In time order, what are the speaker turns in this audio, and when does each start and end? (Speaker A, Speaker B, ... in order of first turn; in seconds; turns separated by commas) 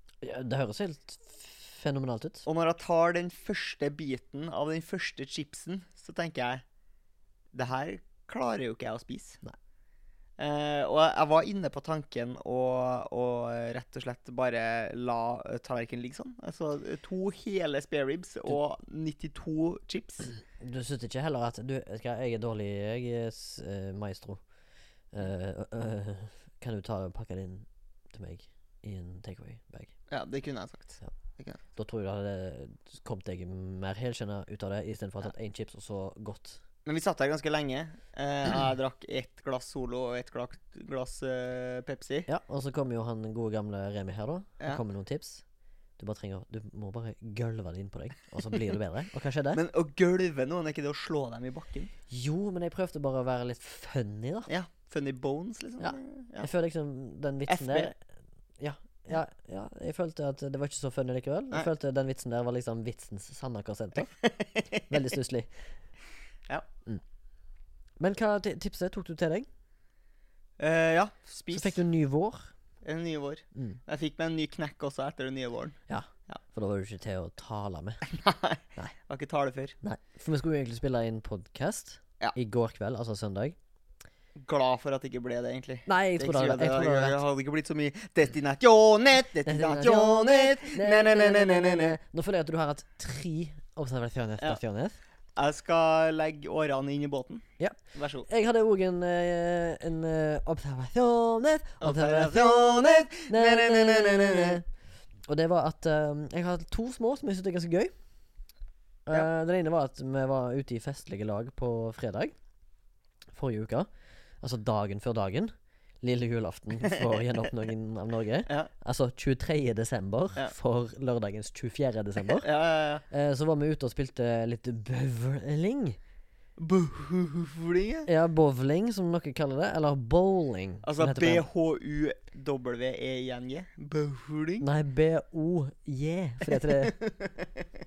Speaker A: 0.2-2.5, Speaker B: 2.5-6.6, Speaker B: 7.5-9.4, Speaker B: 10.4-20.3, Speaker A: 20.6-24.4, Speaker A: 25.1-29.9, Speaker B: 30.1-31.6, Speaker A: 31.8-36.6, Speaker B: 36.9-42.3, Speaker A: 42.3-45.4, Speaker A: 46.0-49.6, Speaker B: 49.5-51.9, Speaker A: 52.1-54.5, Speaker B: 54.5-56.5, Speaker A: 55.8-58.0, Speaker B: 57.5-57.9, Speaker A: 58.6-64.2, Speaker B: 64.2-64.8, Speaker A: 64.9-65.5, Speaker A: 68.0-69.5, Speaker B: 70.6-71.8, Speaker A: 71.5-72.5, Speaker B: 72.8-75.8, Speaker A: 73.5-73.8, Speaker A: 75.9-78.0, Speaker B: 78.0-79.8, Speaker A: 79.8-83.6, Speaker B: 84.4-92.0, Speaker A: 85.9-87.2, Speaker A: 89.5-95.0, Speaker B: 95.4-98.3, Speaker A: 97.6-104.7, Speaker B: 101.8-104.6, Speaker A: 105.3-107.9, Speaker A: 109.1-112.3, Speaker A: 113.3-113.9, Speaker A: 114.4-122.5, Speaker B: 116.9-117.2, Speaker B: 122.3-123.0, Speaker A: 123.1-126.0, Speaker B: 126.6-128.1, Speaker A: 128.1-131.4, Speaker B: 130.8-134.7, Speaker A: 134.6-137.0, Speaker B: 136.5-137.7